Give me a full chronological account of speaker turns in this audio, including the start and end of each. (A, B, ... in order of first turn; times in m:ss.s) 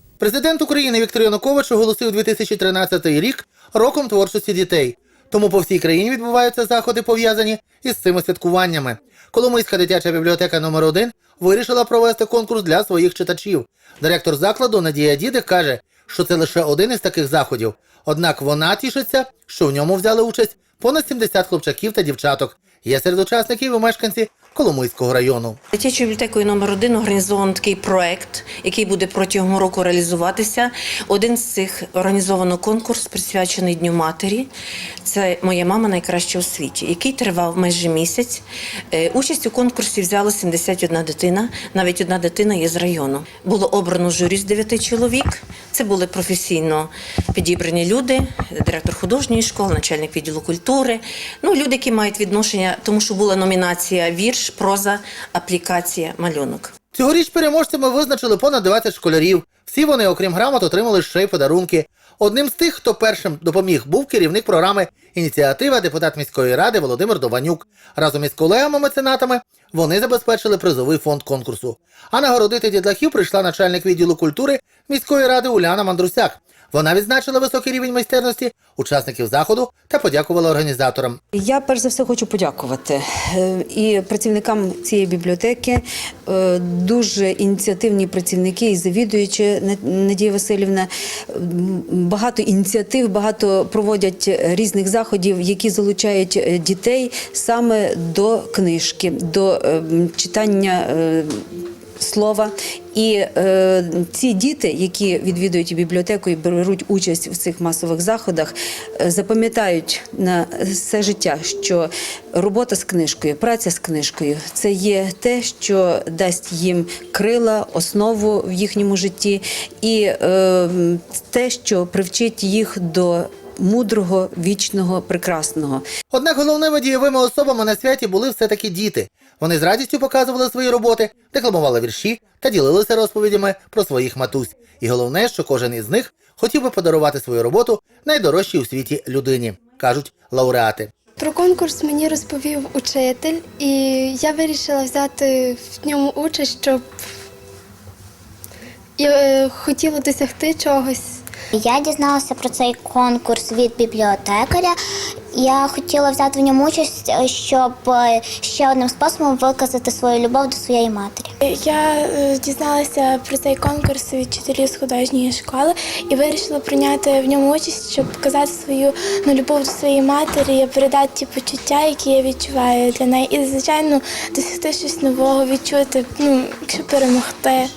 0:00.2-0:25.6 A
0:25.7-0:34.5 B
0:35.0-0:56.7 B
0:56.9-1:21.2 A
1:21.4-1:41.4 C
1:42.0-2:05.8 C
2:06.1-2:20.9 A
2:21.2-2:26.8 D
2:29.0-2:31.2 D
2:31.6-2:34.8 E
2:35.4-2:41.3 E
2:41.4-2:57.7 F